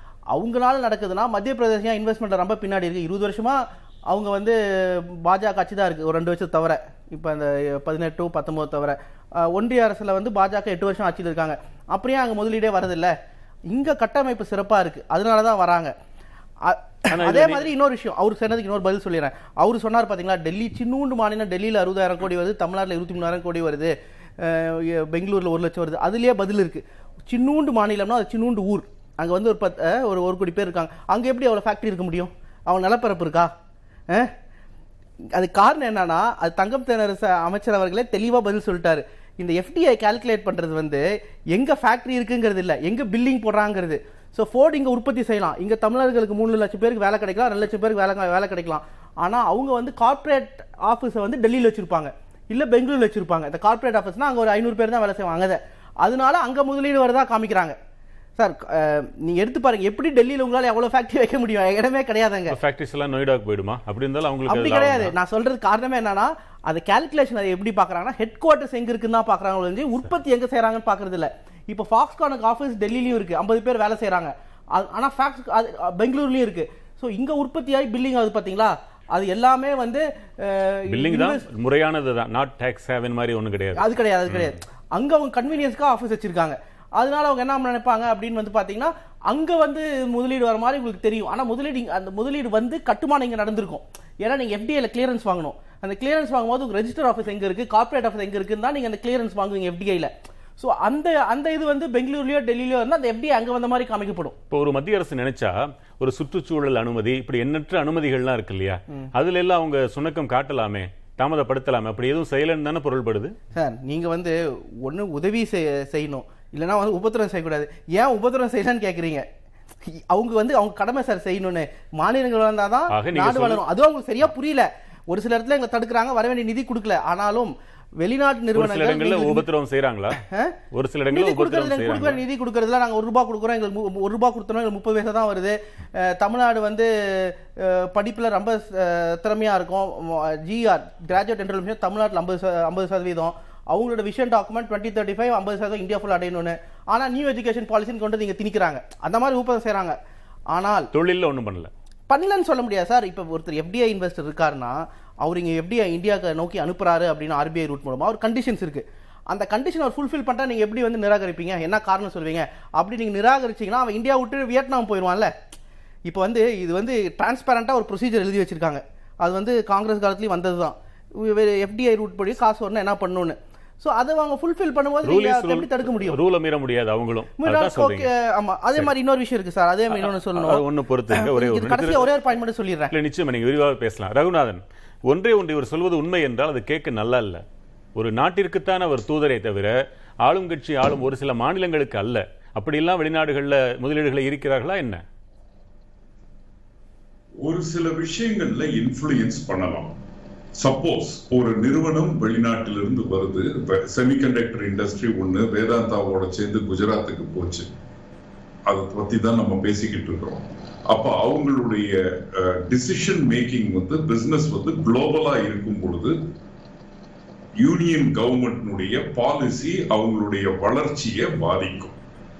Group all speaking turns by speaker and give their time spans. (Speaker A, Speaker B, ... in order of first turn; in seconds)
Speaker A: 0.3-13.1, 13.7-15.9, 16.6-33.5, 35.3-57.8, 58.4-62.5, 64.5-81.4, 83.8-104.3, 113.5-119.2, 119.9-129.4, 130.2-130.6, 131.1-150.0, 150.5-150.9, 152.1-165.3, 166.1-176.2, 177.4-182.9
Speaker B: 17.1-17.7, 62.5-65.1, 80.9-84.5, 104.5-113.3, 122.9-123.6, 128.5-130.2, 130.7-132.2, 150.9-151.7, 175.0-178.1, 179.9-182.1, 182.9-187.4, 187.9-189.7, 190.2-195.0
Speaker C: 197.4-199.9, 200.6-207.7, 208.7-216.2, 217.6-221.9